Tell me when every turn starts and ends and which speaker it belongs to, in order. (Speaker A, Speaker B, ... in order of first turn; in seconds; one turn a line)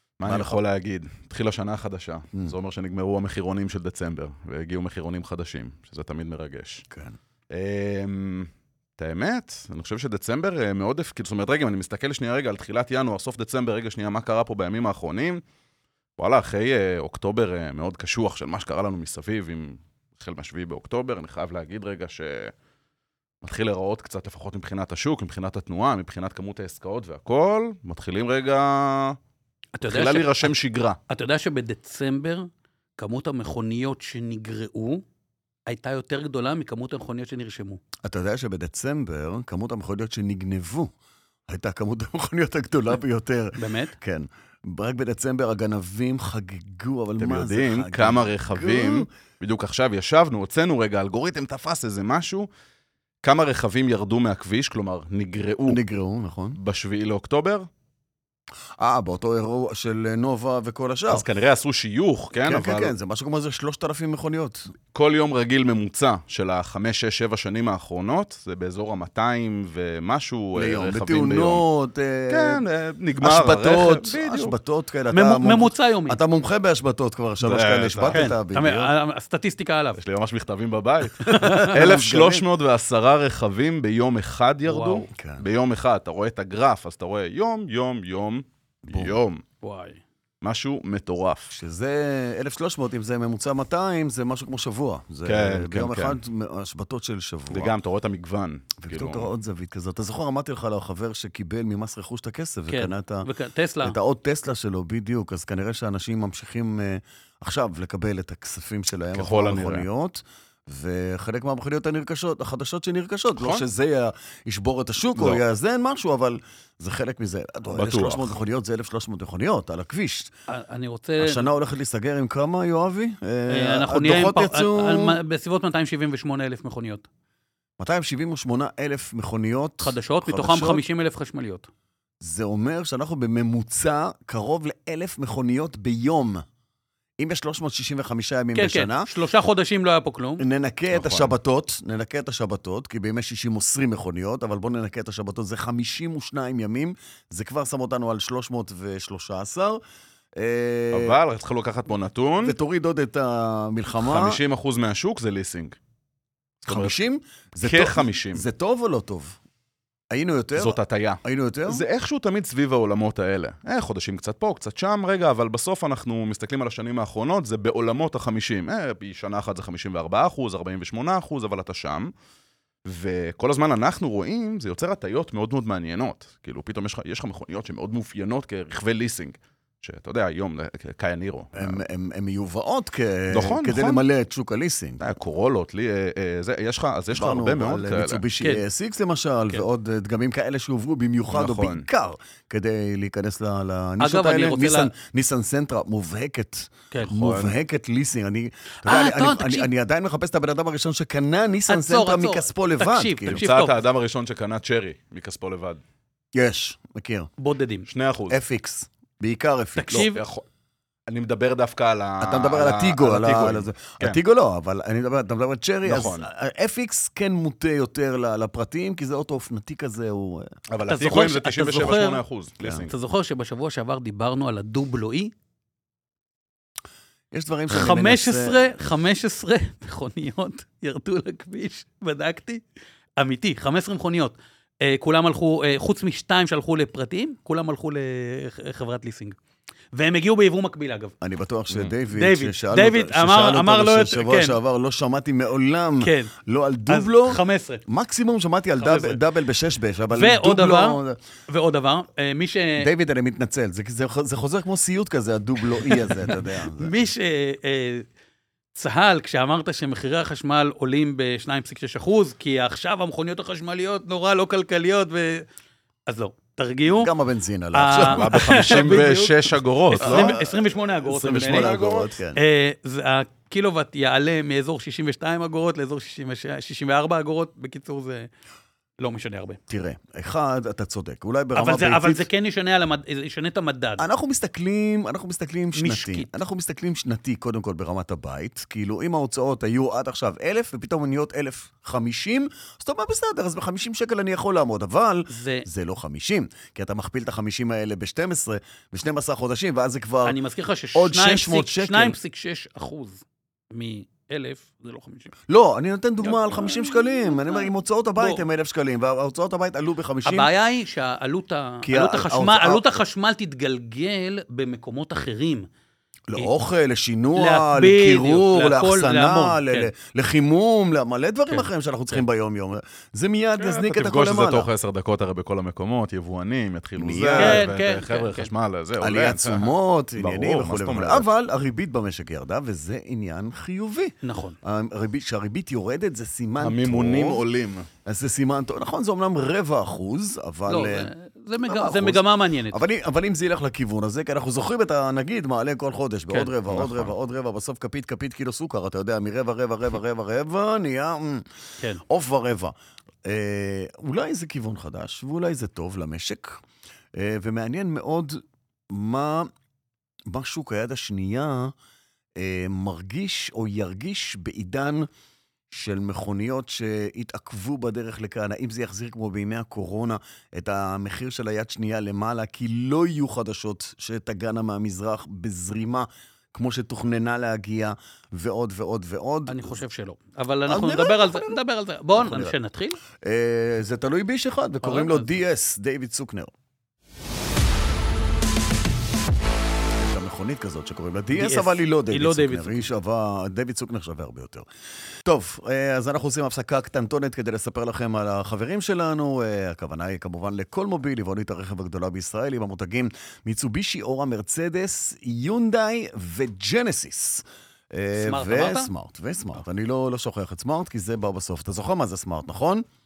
Speaker A: 0.2-6.8
Speaker B: 0.2-0.6
Speaker B: 6.9-7.2
Speaker A: 7.5-15.4
Speaker A: 16.2-22.5
Speaker A: 23.4-29.2
Speaker C: 29.7-30.5
Speaker A: 29.9-31.0
Speaker C: 31.1-35.0
Speaker C: 35.7-37.8
Speaker B: 38.0-40.9
Speaker B: 41.5-49.1
Speaker C: 43.6-43.9
Speaker A: 47.2-52.5
Speaker A: 53.2-55.8
Speaker B: 55.6-56.6
Speaker A: 56.6-57.7
Speaker B: 58.8-61.3
Speaker A: 61.1-62.9
Speaker B: 62.4-64.7
Speaker A: 64.9-71.6
Speaker B: 70.5-72.6
Speaker A: 72.3-74.5
Speaker B: 73.2-78.9
Speaker C: 75.1-76.2
Speaker A: 77.4-78.3
Speaker C: 78.1-80.0
Speaker A: 80.0-89.4
Speaker C: 81.2-81.8
Speaker B: 81.2-82.4
Speaker C: 84.7-85.1
Speaker B: 85.1-85.4
Speaker B: 88.8-89.2
Speaker C: 89.6-90.0
Speaker A: 90.4-91.5
Speaker B: 91.5-97.7
Speaker A: 95.2-96.2
Speaker A: 97.5-99.3
Speaker B: 98.8-103.3
Speaker C: 102.7-104.0
Speaker B: 103.8-120.3
Speaker A: 109.1-109.9
Speaker A: 113.4-113.6
Speaker A: 115.2-115.4
Speaker A: 117.7-118.3
Speaker C: 120.5-121.5
Speaker B: 121.2-125.2
Speaker C: 123.5-127.0
Speaker B: 127.8-130.8
Speaker C: 129.8-131.7
Speaker B: 132.2-136.4
Speaker B: 137.2-139.1
Speaker C: 138.5-140.4
Speaker B: 140.4-149.8
Speaker A: 140.9-141.3
Speaker B: 150.3-151.2
Speaker A: 150.9-152.5
Speaker B: 152.4-154.4
Speaker A: 154.0-155.8
Speaker B: 156.6-159.4
Speaker A: 156.7-157.0
Speaker A: 157.6-158.4
Speaker B: 160.1-161.8
Speaker A: 160.6-172.1
Speaker A: 172.8-181.8
Speaker B: 181.6-185.1
Speaker A: 183.3-184.0
Speaker A: 185.0-188.2
Speaker B: 187.1-203.4
Speaker A: 191.3-191.8
Speaker C: 194.0-194.9
Speaker A: 197.1-197.6
Speaker C: 198.8-199.7
Speaker C: 201.7-203.8
Speaker A: 203.3-205.8
Speaker B: 206.3-207.3
Speaker C: 207.4-207.9
Speaker A: 207.9-208.4
Speaker B: 208.3-210.1
Speaker C: 209.8-210.2
Speaker A: 209.9-210.4
Speaker A: 211.1-214.2
Speaker B: 212.2-220.5
Speaker A: 215.8-216.2
Speaker A: 220.7-222.9
Speaker C: 220.9-222.2
Speaker C: 222.8-225.3
Speaker B: 227.3-228.6
Speaker C: 227.7-232.6
Speaker C: 233.2-239.3
Speaker C: 239.9-241.1
Speaker B: 241.2-251.2
Speaker C: 242.1-244.6
Speaker C: 246.0-246.3
Speaker C: 246.9-247.8
Speaker C: 248.8-249.2
Speaker C: 250.1-252.9
Speaker B: 252.8-256.9
Speaker C: 255.8-258.1
Speaker C: 258.7-265.4
Speaker C: 266.1-267.1
Speaker B: 266.9-269.2
Speaker C: 267.7-271.7
Speaker A: 268.0-270.4
Speaker B: 269.9-272.4
Speaker A: 271.2-272.1
Speaker C: 272.3-278.3
Speaker C: 279.0-279.6
Speaker B: 279.7-282.3
Speaker C: 281.5-284.1
Speaker B: 284.0-300.4
Speaker C: 285.7-286.3
Speaker C: 295.3-295.6
Speaker C: 300.2-305.3
Speaker B: 300.9-302.1
Speaker B: 305.5-310.5
Speaker C: 306.2-308.4
Speaker C: 310.2-315.7
Speaker B: 311.8-312.8
Speaker B: 316.3-324.7
Speaker C: 317.3-319.9
Speaker A: 323.6-331.3
Speaker B: 327.0-327.6
Speaker C: 327.4-328.5
Speaker B: 329.0-337.4
Speaker C: 334.2-334.6
Speaker A: 336.6-337.9
Speaker B: 338.0-341.1
Speaker C: 340.7-342.8
Speaker B: 341.6-351.5
Speaker A: 346.7-347.1
Speaker B: 352.1-356.6
Speaker B: 357.1-359.5
Speaker B: 360.3-361.7
Speaker B: 362.4-365.1
Speaker B: 365.7-379.8
Speaker C: 379.5-383.0
Speaker B: 380.7-381.6
Speaker B: 382.1-382.6
Speaker B: 383.2-386.5
Speaker C: 384.8-385.3
Speaker B: 390.0-394.7
Speaker C: 391.3-392.9
Speaker B: 395.2-412.8
Speaker C: 408.1-408.9